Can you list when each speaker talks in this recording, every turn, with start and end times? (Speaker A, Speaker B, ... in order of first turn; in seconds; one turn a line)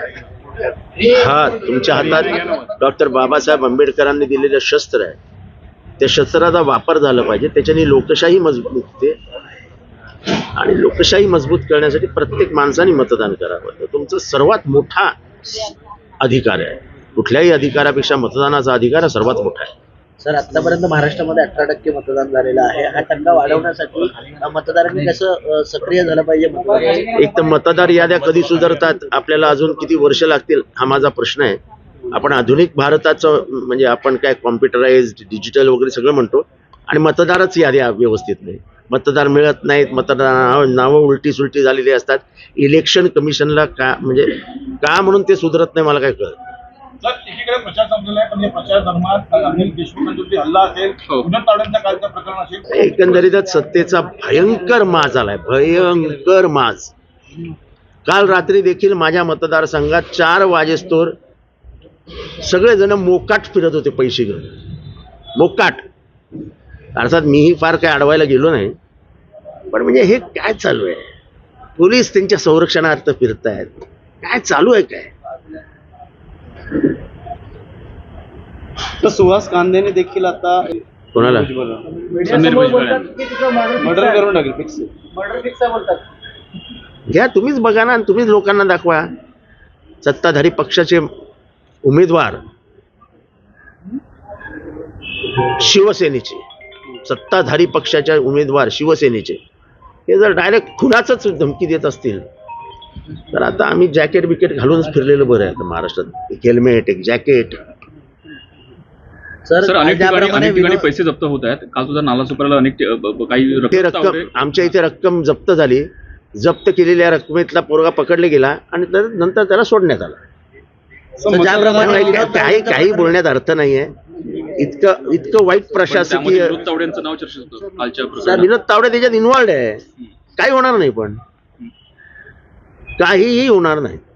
Speaker A: 0.8-5.2
Speaker A: 6.0-9.2
Speaker A: 10.4-15.6
Speaker A: 16.2-19.7
Speaker B: 20.2-27.2
Speaker A: 27.1-31.6
Speaker A: 32.1-46.4
Speaker C: 47.0-52.6
Speaker A: 52.7-56.9
Speaker A: 58.0-61.1
Speaker A: 62.3-64.6
Speaker A: 65.3-65.8
Speaker A: 66.9-68.7
Speaker A: 69.7-71.1
Speaker A: 71.8-75.1
Speaker D: 79.0-82.4
Speaker A: 81.1-81.5
Speaker E: 82.2-83.2
Speaker D: 83.7-84.9
Speaker A: 87.1-89.1
Speaker A: 90.0-91.1
Speaker A: 91.8-92.4
Speaker A: 95.4-96.4
Speaker A: 97.0-99.4
Speaker A: 100.1-102.2
Speaker A: 103.3-107.6
Speaker B: 109.5-110.9
Speaker E: 109.6-114.3
Speaker A: 113.7-120.2
Speaker D: 121.2-122.4
Speaker B: 121.3-123.1
Speaker A: 121.6-123.9
Speaker A: 124.5-126.6
Speaker E: 125.9-128.5
Speaker B: 128.2-128.4
Speaker A: 128.2-129.8
Speaker A: 130.4-131.2
Speaker A: 133.0-134.0